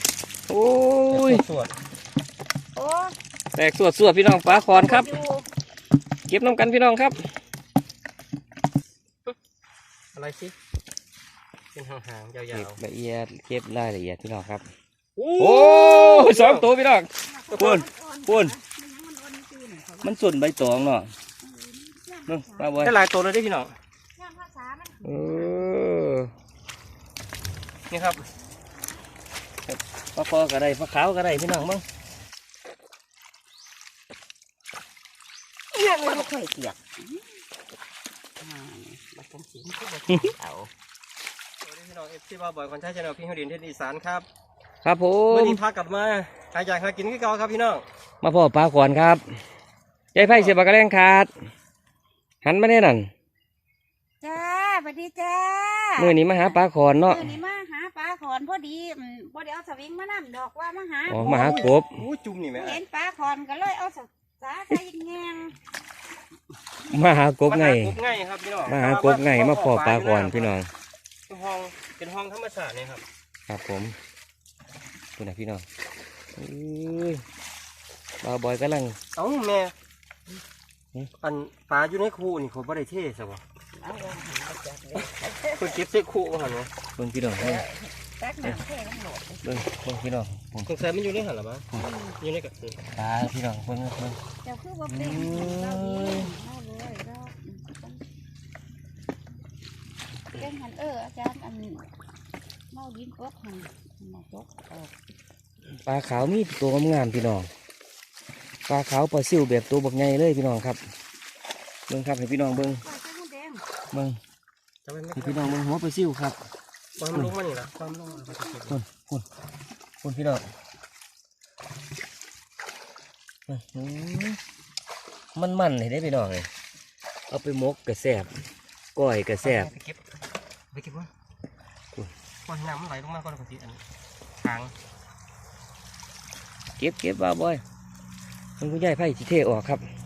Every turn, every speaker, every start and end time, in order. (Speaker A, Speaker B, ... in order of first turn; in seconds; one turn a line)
Speaker A: 0.5-1.4
Speaker B: 1.1-1.8
Speaker C: 2.7-3.1
Speaker A: 3.5-5.1
Speaker C: 4.7-5.5
Speaker A: 6.3-7.3
Speaker B: 10.1-10.5
Speaker B: 11.7-12.8
Speaker A: 12.5-14.7
Speaker B: 15.2-16.7
Speaker A: 15.4-18.5
Speaker C: 17.2-20.2
Speaker B: 17.5-17.8
Speaker A: 20.0-21.1
Speaker C: 21.4-22.7
Speaker A: 22.3-22.9
Speaker B: 22.8-23.7
Speaker C: 24.1-25.7
Speaker A: 25.0-26.3
Speaker B: 27.9-28.2
Speaker A: 29.7-31.8
Speaker B: 35.8-36.2
Speaker C: 35.9-37.2
Speaker C: 38.4-40.7
Speaker B: 41.6-44.2
Speaker A: 44.8-45.6
Speaker B: 45.3-47.8
Speaker A: 48.2-49.2
Speaker A: 50.1-51.3
Speaker B: 50.1-50.6
Speaker A: 52.4-53.1
Speaker C: 54.2-61.8
Speaker A: 56.0-57.3
Speaker A: 61.1-62.0
Speaker B: 61.2-62.8
Speaker C: 62.5-65.5
Speaker A: 66.9-68.0
Speaker B: 67.5-70.6
Speaker A: 68.6-70.7
Speaker B: 71.3-73.0
Speaker A: 73.5-74.0
Speaker A: 75.2-75.7
Speaker A: 76.3-77.2
Speaker A: 78.2-79.0
Speaker B: 79.1-79.7
Speaker B: 81.2-83.4
Speaker C: 83.7-85.8
Speaker B: 85.6-86.7
Speaker A: 87.0-87.6
Speaker C: 87.4-89.7
Speaker A: 89.4-90.7
Speaker B: 90.7-92.8
Speaker C: 91.7-92.2
Speaker A: 92.8-94.2
Speaker C: 94.4-98.0
Speaker A: 94.9-96.3
Speaker C: 100.3-101.9
Speaker C: 102.7-104.9
Speaker A: 105.8-107.5
Speaker A: 108.7-110.8
Speaker A: 111.9-112.8
Speaker C: 112.7-113.6
Speaker A: 113.9-114.2
Speaker B: 114.8-115.6
Speaker A: 115.1-116.4
Speaker B: 117.0-118.8
Speaker A: 118.7-119.2
Speaker A: 120.0-120.5
Speaker A: 123.5-124.4
Speaker A: 125.3-126.5
Speaker A: 127.3-128.3
Speaker A: 128.9-129.7
Speaker B: 129.4-130.0
Speaker B: 130.7-131.1
Speaker B: 132.4-133.8
Speaker B: 134.4-134.7
Speaker A: 136.8-137.6
Speaker A: 138.6-139.8